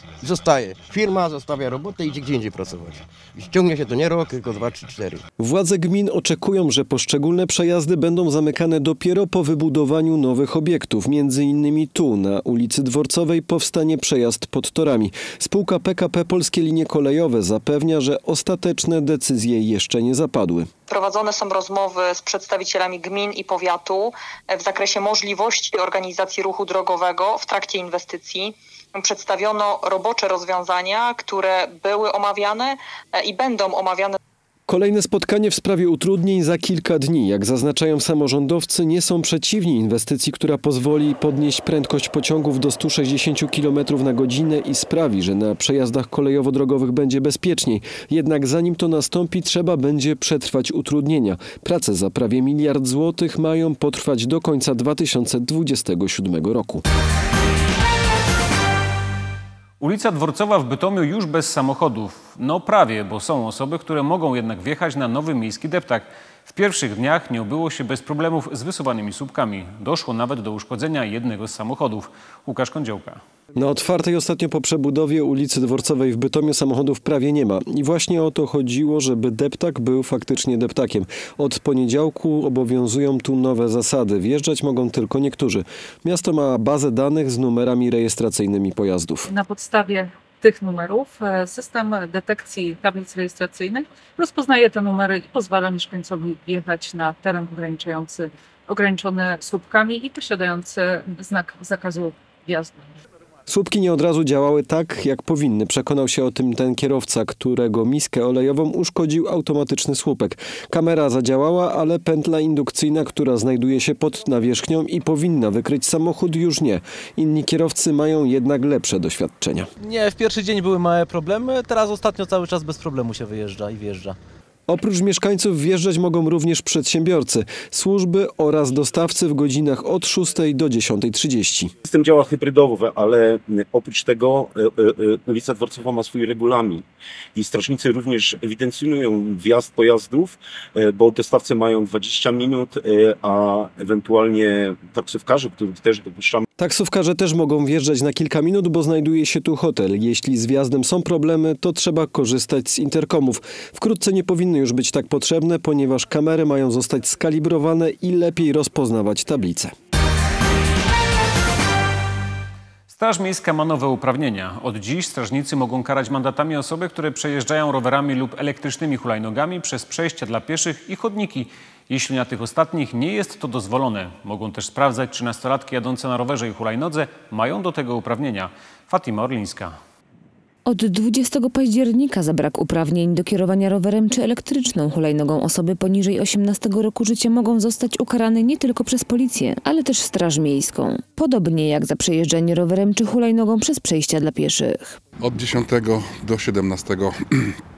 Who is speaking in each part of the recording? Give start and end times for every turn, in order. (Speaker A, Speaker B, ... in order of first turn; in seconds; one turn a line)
Speaker A: 0.2-5.2
Speaker B: 5.4-20.7
Speaker C: 20.9-34.2
Speaker B: 34.7-56.8
Speaker D: 59.8-73.2
Speaker B: 73.6-89.3
Speaker E: 89.3-102.9
Speaker B: 103.5-119.7
Speaker F: 119.8-124.2
Speaker B: 124.7-131.7
Speaker G: 131.8-136.8
Speaker G: 137.4-146.4
Speaker B: 146.6-159.7
Speaker D: 162.9-179.8
Speaker H: 180.6-195.0
Speaker I: 195.2-197.6